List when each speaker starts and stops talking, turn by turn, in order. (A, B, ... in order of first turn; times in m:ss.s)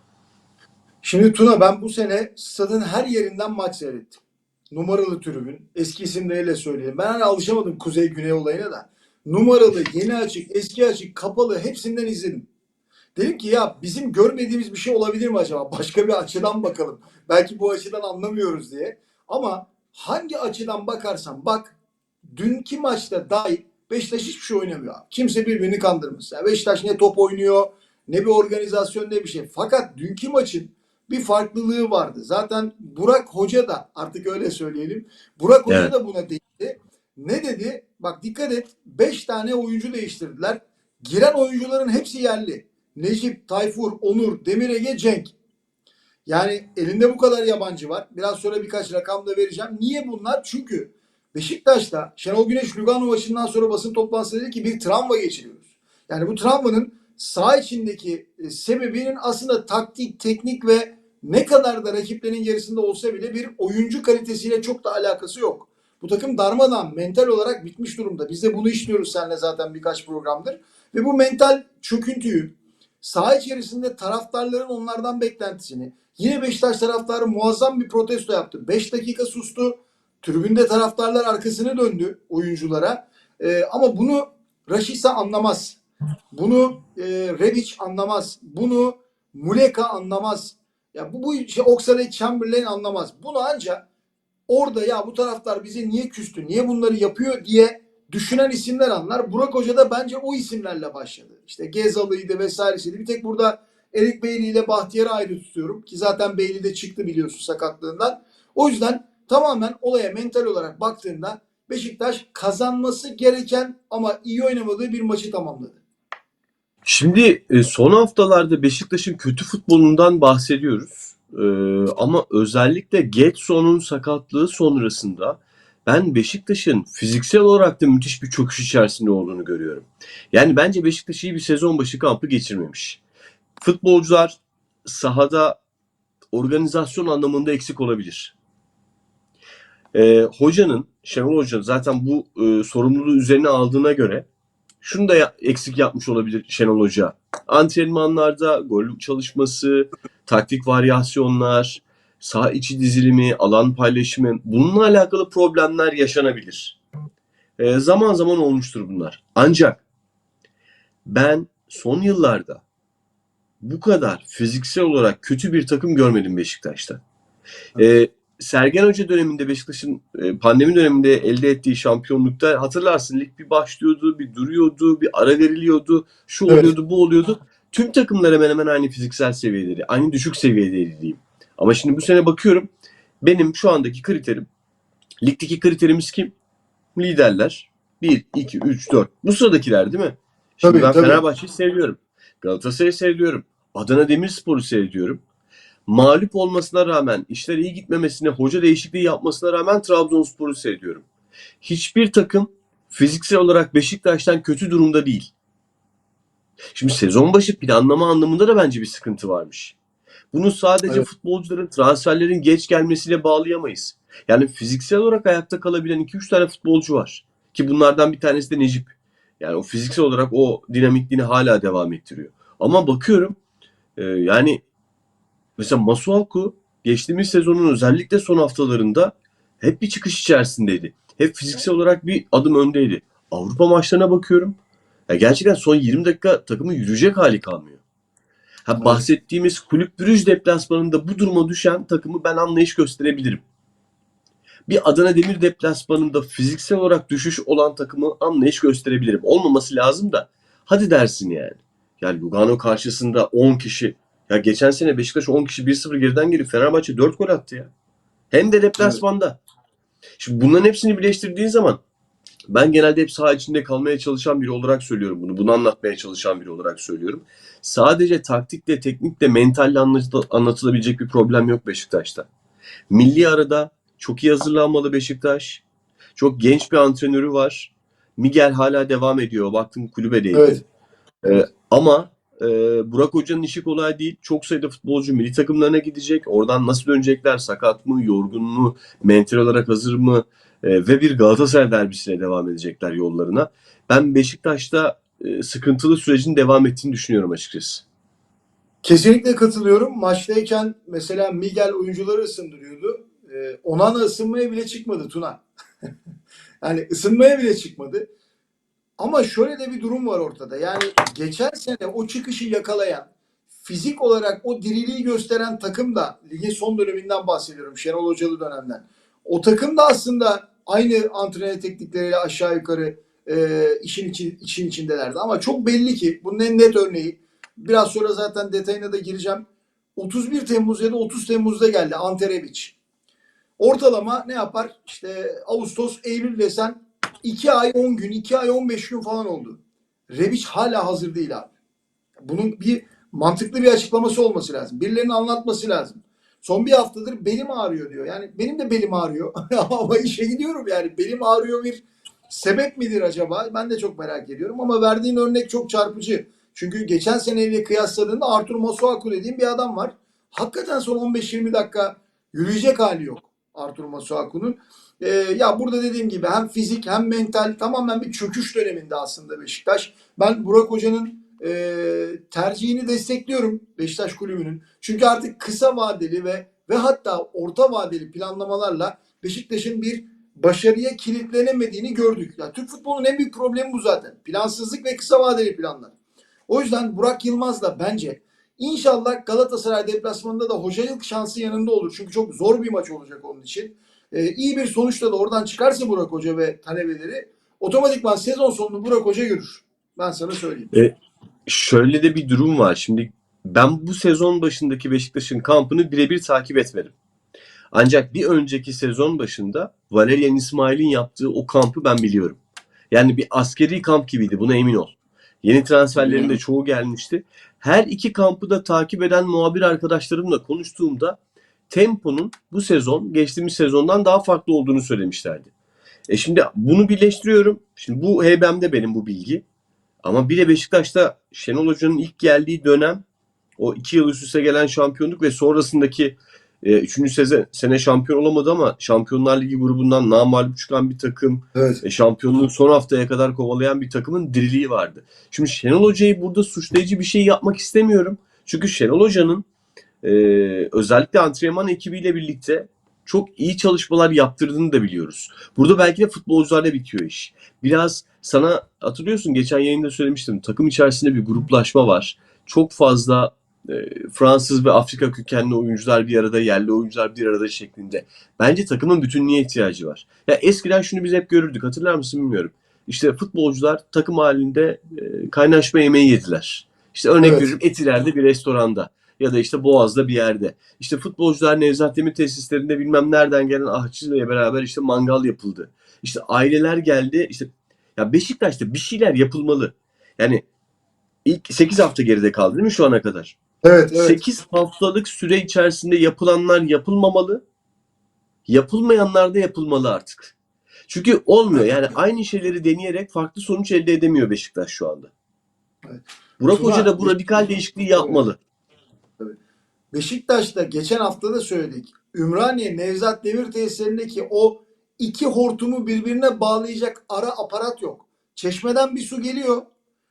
0:01.0-0:12.5 A
0:13.1-0:21.8 A
0:22.3-0:45.3 A
0:46.2-1:25.8 A
1:26.3-1:33.8 A
1:34.5-1:55.8 A
1:56.8-2:13.0 B
2:13.6-2:15.6 B
2:16.3-2:18.3 B
2:19.9-2:24.2 B
2:24.8-2:36.8 B
2:37.6-2:39.8 B
2:41.1-2:42.6 B
2:43.6-2:47.0 B
2:47.8-3:02.7 B
3:03.2-3:04.5 B
3:05.2-3:06.3 B
3:06.9-3:15.2 B
3:10.6-3:11.2 A
3:15.9-3:21.0 B
3:21.6-3:25.3 B
3:26.7-3:29.8 B
3:30.3-3:43.3 B
3:44.0-3:44.6 B
3:45.6-3:54.6 B
3:55.1-3:57.8 B
3:58.7-4:03.4 B
3:58.8-3:59.0 A
4:04.7-4:17.7 B
4:18.3-4:19.4 B
4:20.2-4:21.8 B
4:22.5-4:32.3 B
4:32.9-4:35.6 B
4:36.2-4:40.6 B
4:40.3-4:40.6 A
4:41.2-4:57.8 B
4:58.8-5:05.4 A
5:06.6-5:08.1 A
5:09.0-5:13.1 A
5:13.6-5:29.4 A
5:30.0-5:32.8 A
5:33.6-5:39.6 A
5:40.1-5:41.5 A
5:42.2-6:25.9 A
6:26.5-6:40.7 A
6:41.5-6:46.9 B
6:47.7-6:52.4 B
6:52.9-7:01.2 B
6:56.0-6:56.4 A
7:01.7-7:05.5 B
7:06.1-7:09.4 B
7:10.0-7:13.0 B
7:13.6-7:29.4 B
7:21.6-7:21.8 A
7:30.0-8:10.4 B
7:57.2-7:57.5 A
8:11.2-8:13.4 B
8:13.6-8:14.2 A
8:14.0-8:17.4 B
8:18.5-8:20.3 B
8:20.9-8:25.1 B
8:25.8-8:28.2 A
8:26.4-8:28.4 B
8:29.9-8:39.6 A